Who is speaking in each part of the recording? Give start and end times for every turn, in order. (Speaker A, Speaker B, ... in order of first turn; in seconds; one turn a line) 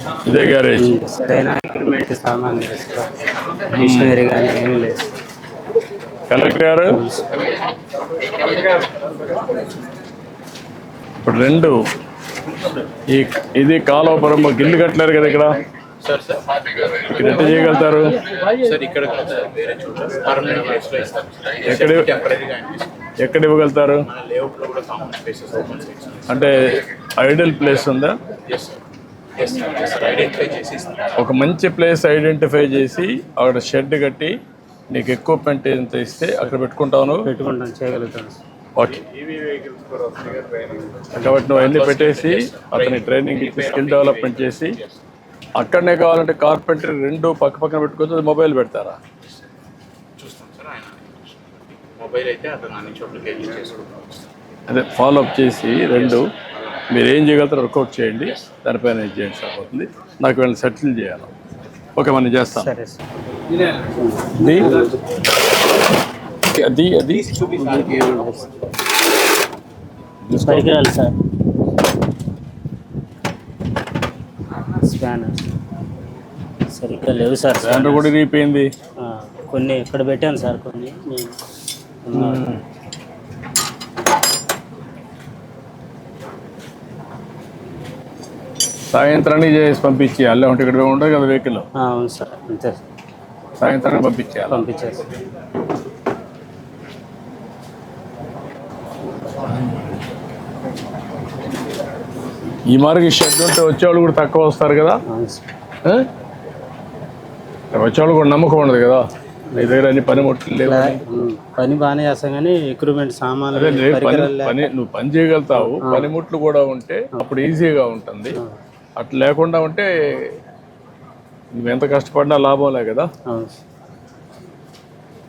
Speaker A: 0.3-0.9
Speaker B: 0.8-3.1
Speaker B: 3.7-5.0
Speaker A: 3.8-4.2
Speaker A: 6.3-7.0
Speaker B: 6.9-7.3
Speaker A: 11.2-11.8
Speaker A: 13.1-15.6
Speaker C: 16.0-16.5
Speaker A: 16.9-18.2
Speaker C: 18.4-23.1
Speaker A: 21.7-22.1
Speaker A: 23.2-24.1
Speaker C: 24.1-26.5
Speaker A: 26.3-28.2
Speaker C: 28.5-28.8
Speaker C: 29.4-31.1
Speaker A: 31.2-34.4
Speaker A: 34.9-37.3
Speaker B: 37.2-38.4
Speaker A: 38.8-44.8
Speaker C: 41.0-45.0
Speaker A: 45.6-49.0
Speaker C: 50.2-54.3
Speaker A: 54.7-56.3
Speaker A: 56.9-61.3
Speaker A: 62.0-62.7
Speaker B: 62.5-63.1
Speaker B: 63.8-65.0
Speaker A: 64.4-64.9
Speaker A: 66.4-67.5
Speaker C: 67.5-68.0
Speaker B: 67.6-68.4
Speaker A: 70.3-70.7
Speaker B: 70.3-71.2
Speaker B: 74.7-75.5
Speaker B: 76.7-78.1
Speaker A: 77.6-78.7
Speaker B: 79.0-81.3
Speaker B: 82.0-82.5
Speaker A: 82.1-82.6
Speaker A: 88.9-91.7
Speaker B: 91.8-92.8
Speaker A: 93.6-94.6
Speaker B: 94.5-95.0
Speaker A: 102.7-105.0
Speaker B: 105.1-105.4
Speaker A: 107.7-109.0
Speaker B: 109.5-109.8
Speaker A: 109.6-111.0
Speaker B: 110.6-114.6
Speaker A: 113.5-118.4
Speaker B: 115.6-116.1
Speaker A: 119.0-120.3
Speaker A: 121.5-123.1
Speaker B: 123.3-123.5